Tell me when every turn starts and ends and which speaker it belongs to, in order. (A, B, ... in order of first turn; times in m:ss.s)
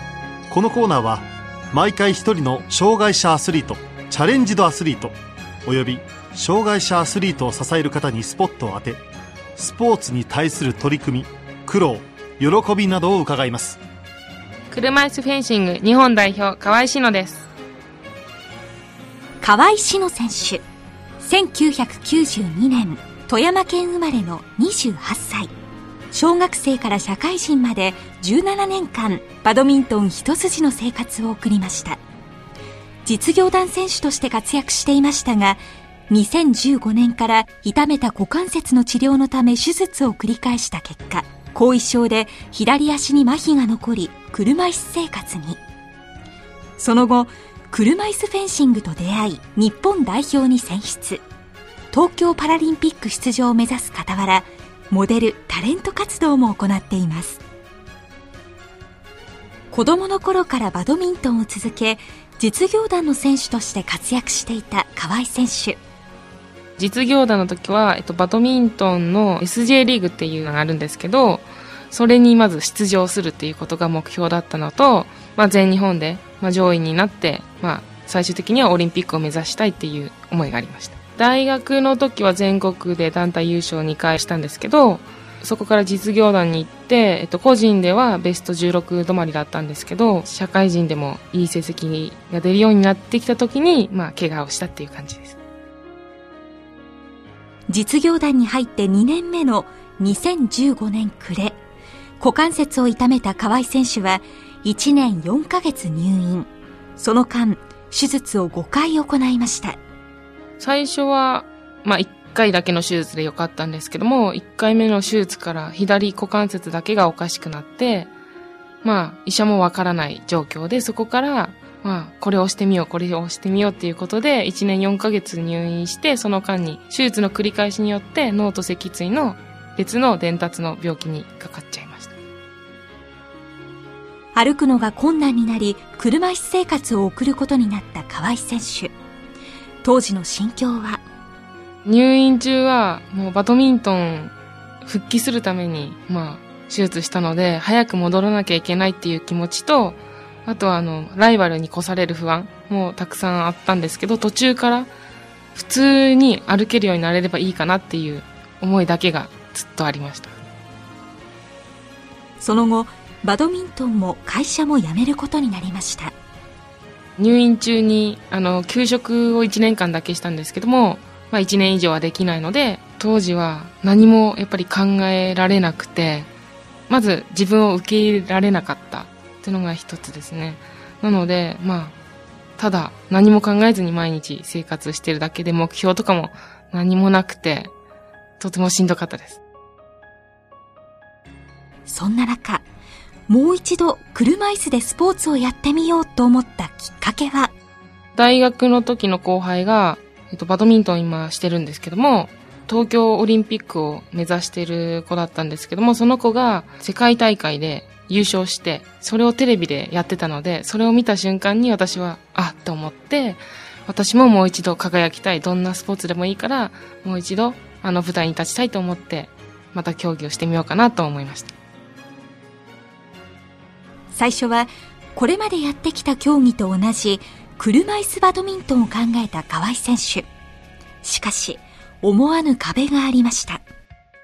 0:00.5-0:09.0 A
0:09.6-0:13.8 A
0:14.7-0:17.5 B
0:19.4-0:20.6 C
0:21.2-0:25.5 C
0:26.1-0:32.0 C
0:33.0-0:45.6 C
0:46.8-0:51.2 C
0:51.9-0:57.4 C
0:59.7-1:05.8 C
1:06.8-1:35.4 B
1:37.7-1:41.6 C
1:42.2-1:49.8 C
1:50.6-1:58.1 B
1:58.8-2:12.1 B
2:14.3-2:18.9 C
2:19.8-2:21.0 C
2:21.8-2:24.3 B
2:24.8-2:34.9 B
2:35.5-2:40.3 B
2:42.4-2:46.1 C
2:47.2-2:56.3 B
2:56.9-3:02.0 B
3:02.6-3:07.7 B
3:08.4-3:09.4 B
3:11.8-3:12.6 C
3:13.3-3:17.5 C
3:18.2-3:41.5 B
3:44.1-3:50.3 C
3:51.0-3:53.6 C